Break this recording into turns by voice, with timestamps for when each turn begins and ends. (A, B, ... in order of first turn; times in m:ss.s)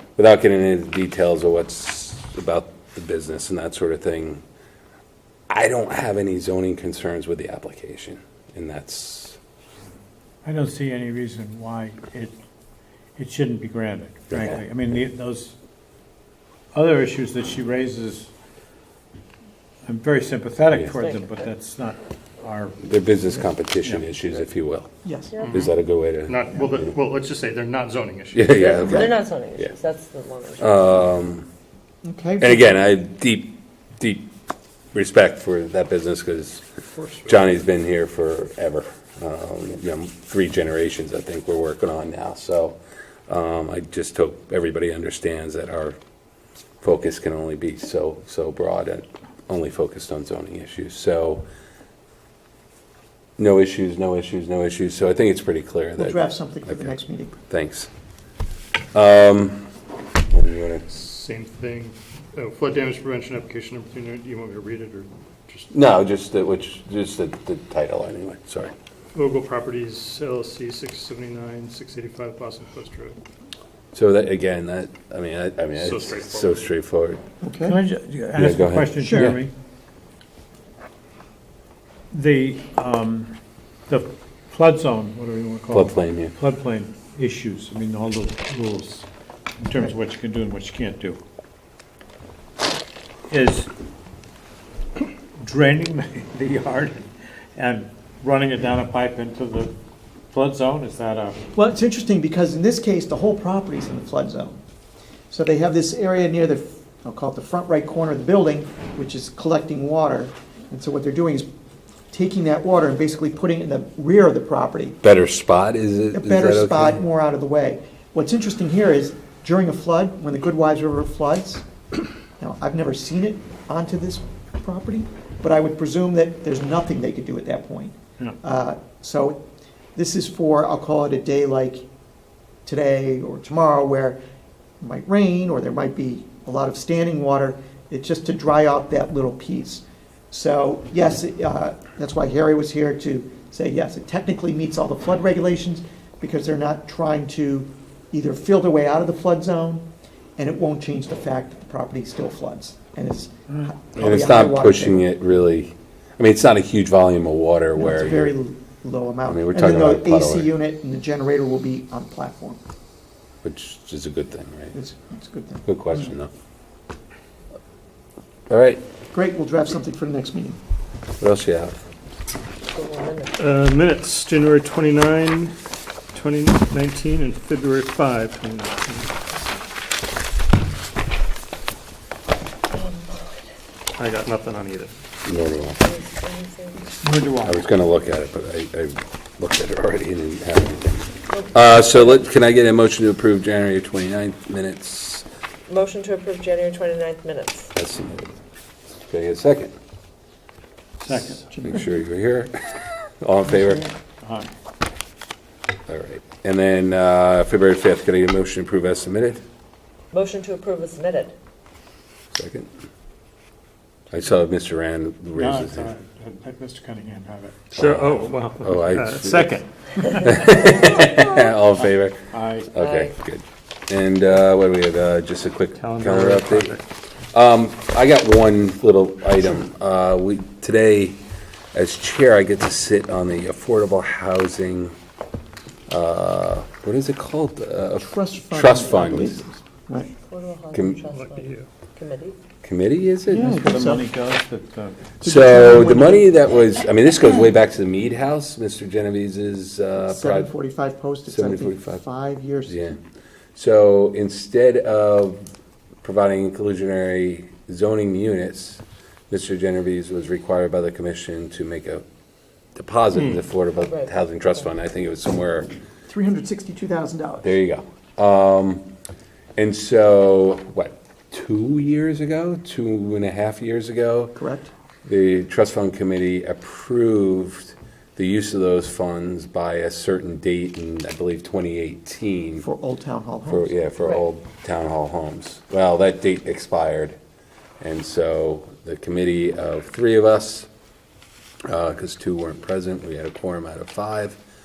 0:00.2-0:04.4 A
0:05.5-0:09.4 A
0:10.4-0:12.4 B
0:13.2-0:15.5 B
0:14.3-0:14.6 A
0:16.7-0:18.2 B
0:19.8-0:22.7 B
0:20.9-0:21.5 C
0:22.8-0:24.9 A
0:25.0-0:25.3 D
0:25.3-0:25.6 C
0:25.4-0:25.7 E
0:25.5-0:26.4 A
0:26.2-0:28.7 E
0:28.3-0:29.7 A
0:28.5-0:30.8 C
0:28.8-0:29.1 D
0:30.6-0:31.4 A
0:32.0-0:32.7 D
0:32.4-0:34.3 A
0:34.9-0:36.6 A
0:36.9-0:37.4 E
0:37.3-0:42.8 A
0:43.3-0:46.0 A
0:46.8-0:51.4 A
0:53.4-0:57.9 A
0:56.0-0:57.4 D
0:58.9-0:59.6 A
1:00.3-1:00.8 A
1:00.9-1:05.7 E
1:05.7-1:08.7 A
1:09.1-1:13.2 E
1:13.9-1:17.2 A
1:15.8-1:16.7 E
1:17.4-1:17.8 D
1:17.7-1:19.5 B
1:18.4-1:19.4 A
1:19.0-1:19.4 D
1:22.1-1:23.3 B
1:23.9-1:25.8 B
1:25.7-1:26.4 A
1:26.4-1:29.0 B
1:29.6-1:31.2 B
1:33.3-1:33.7 B
1:35.4-1:39.7 B
1:40.3-1:41.4 B
1:41.5-1:44.6 D
1:45.3-1:51.5 D
1:52.1-1:55.0 D
1:55.0-1:57.0 A
1:56.1-2:01.6 D
2:02.4-2:09.4 D
2:09.9-2:11.8 D
2:12.6-2:14.2 D
2:14.8-2:29.8 D
2:30.4-2:35.1 D
2:34.0-2:38.4 A
2:37.8-2:42.6 D
2:39.3-2:40.5 A
2:43.4-2:44.8 A
2:44.7-2:46.0 D
2:45.6-2:46.3 A
2:48.5-2:48.8 A
2:49.1-2:50.6 D
2:51.2-2:51.8 A
2:52.7-2:53.4 C
2:53.4-2:55.5 E
2:56.1-2:59.1 E
3:02.7-3:03.4 C
3:04.0-3:04.9 E
3:05.2-3:05.8 A
3:05.8-3:07.0 C
3:07.0-3:07.6 B
3:07.4-3:15.2 A
3:11.3-3:12.2 C
3:15.7-3:17.7 C
3:17.7-3:18.4 A
3:18.9-3:19.7 A
3:21.0-3:21.4 B
3:21.6-3:23.9 A
3:24.2-3:24.5 B
3:25.9-3:29.4 A
3:30.1-3:31.3 C
3:32.3-3:32.7 A
3:34.1-3:35.9 A
3:35.3-3:37.6 B
3:37.7-3:42.2 A
3:37.7-3:39.6 E
3:40.3-3:41.3 C
3:42.3-3:42.7 B
3:42.7-3:46.8 A
3:42.7-3:43.2 C
3:45.8-3:46.8 E
3:47.3-3:51.2 A
3:51.7-3:54.9 A
3:55.9-3:59.4 A
3:58.0-4:00.1 D
4:00.2-4:02.4 C
4:00.7-4:01.0 A
4:01.1-4:01.7 E
4:02.6-4:03.6 A
4:03.3-4:04.0 D
4:03.4-4:05.0 B
4:05.2-4:06.4 D
4:05.2-4:10.5 A
4:10.0-4:12.8 D
4:11.3-4:12.0 A
4:12.7-4:13.0 A
4:13.5-4:15.4 A
4:16.0-4:22.0 A
4:22.7-4:25.7 A
4:23.8-4:24.2 C
4:26.1-4:27.5 D
4:27.4-4:28.8 A
4:29.6-4:34.3 A
4:34.3-4:34.7 D
4:35.0-4:42.6 A
4:42.6-4:43.7 D
4:43.5-4:47.2 A
4:47.8-4:50.7 A
4:51.7-4:54.4 A